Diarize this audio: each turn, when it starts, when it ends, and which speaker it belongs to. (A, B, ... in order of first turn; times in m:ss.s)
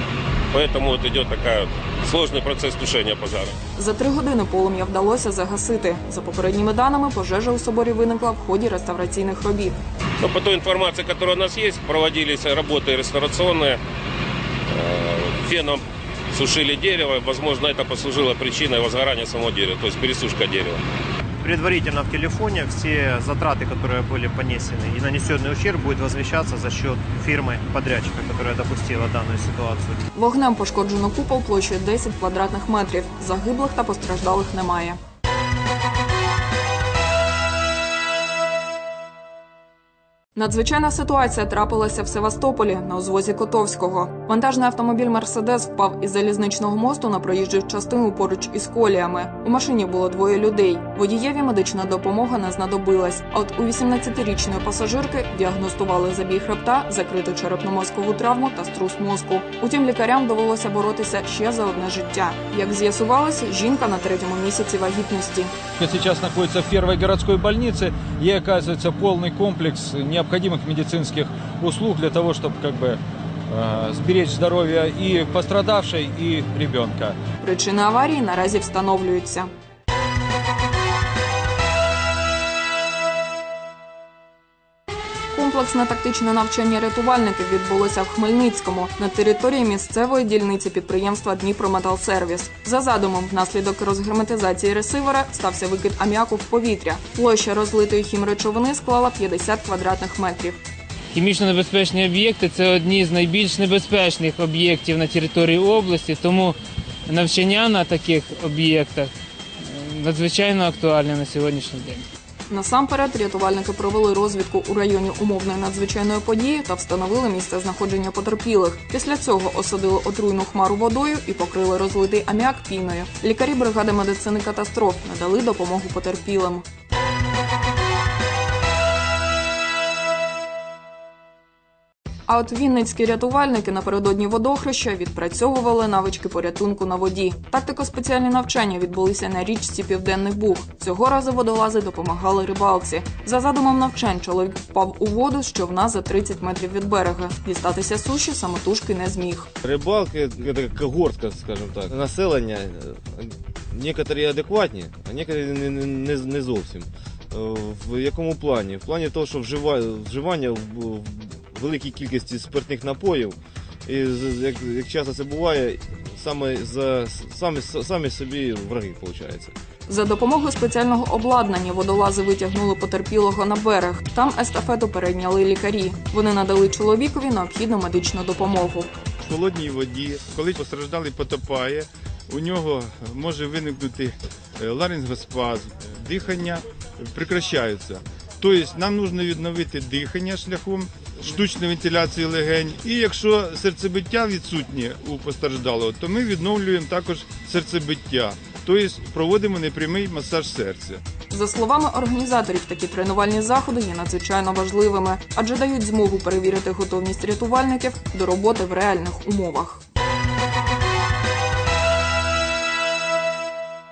0:00.5-0:03.5 A
0:03.8-0:09.8 B
0:10.2-0:13.8 A
0:14.7-0:20.8 A
0:21.4-0:30.0 C
0:30.1-0:35.0 B
0:40.4-1:05.5 B
1:05.8-1:13.0 D
1:13.5-1:17.2 D
1:17.4-1:19.5 B
1:25.3-1:40.6 B
1:41.1-1:52.1 E
1:52.5-2:06.6 B
2:12.3-2:29.5 B
2:29.6-2:49.6 F
2:49.9-2:58.9 B
2:59.2-3:21.0 G
3:21.3-3:29.8 B